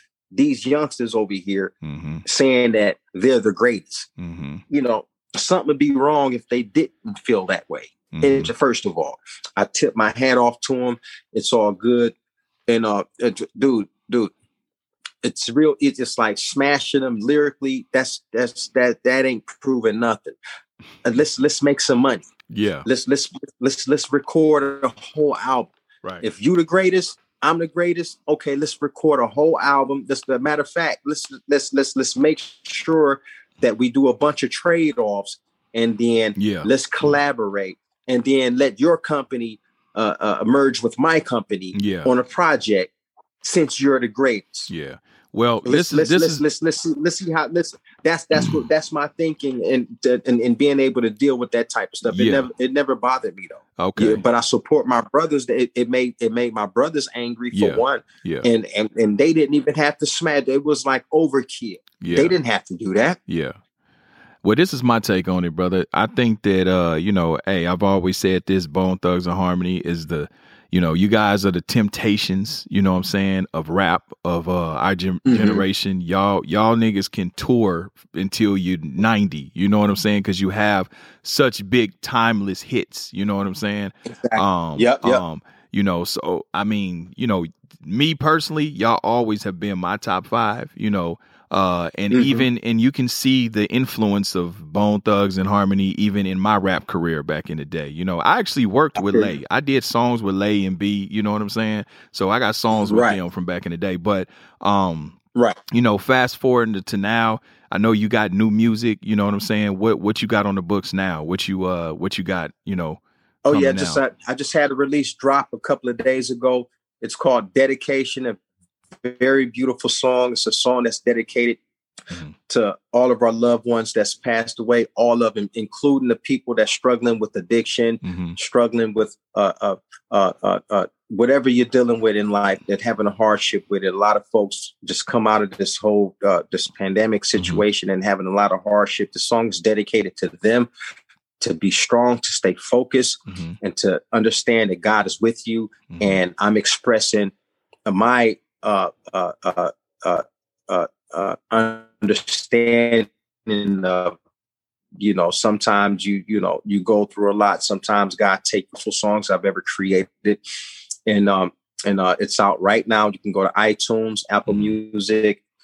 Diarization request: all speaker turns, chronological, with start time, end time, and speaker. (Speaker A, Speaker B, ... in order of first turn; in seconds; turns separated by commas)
Speaker A: 0.3-1.7, Speaker B: 1.8-2.2, Speaker A: 2.2-4.1, Speaker B: 4.2-4.6, Speaker A: 4.7-12.1, Speaker B: 8.1-8.5, Speaker A: 12.7-14.3, Speaker A: 15.2-20.4, Speaker A: 21.0-22.3, Speaker B: 22.5-22.9, Speaker A: 22.9-42.9, Speaker B: 36.4-37.2, Speaker B: 41.7-42.1, Speaker A: 43.4-44.7, Speaker B: 44.7-46.4, Speaker A: 45.6-63.2, Speaker B: 48.4-48.7, Speaker B: 52.1-52.5, Speaker B: 53.8-54.2, Speaker B: 57.5-58.5, Speaker B: 62.0-62.4, Speaker B: 63.3-63.6, Speaker B: 64.4-105.2, Speaker A: 75.3-75.7, Speaker A: 84.2-85.2, Speaker A: 92.1-92.5, Speaker A: 99.0-99.4, Speaker A: 102.7-103.2, Speaker B: 105.7-114.0, Speaker A: 113.5-118.4, Speaker A: 119.0-121.6, Speaker A: 122.5-140.7, Speaker B: 128.0-128.4, Speaker B: 137.4-137.6, Speaker A: 141.4-147.3, Speaker B: 143.3-143.6, Speaker B: 145.9-146.2, Speaker A: 147.9-154.2, Speaker A: 155.0-160.4, Speaker A: 161.1-165.4, Speaker B: 164.5-164.7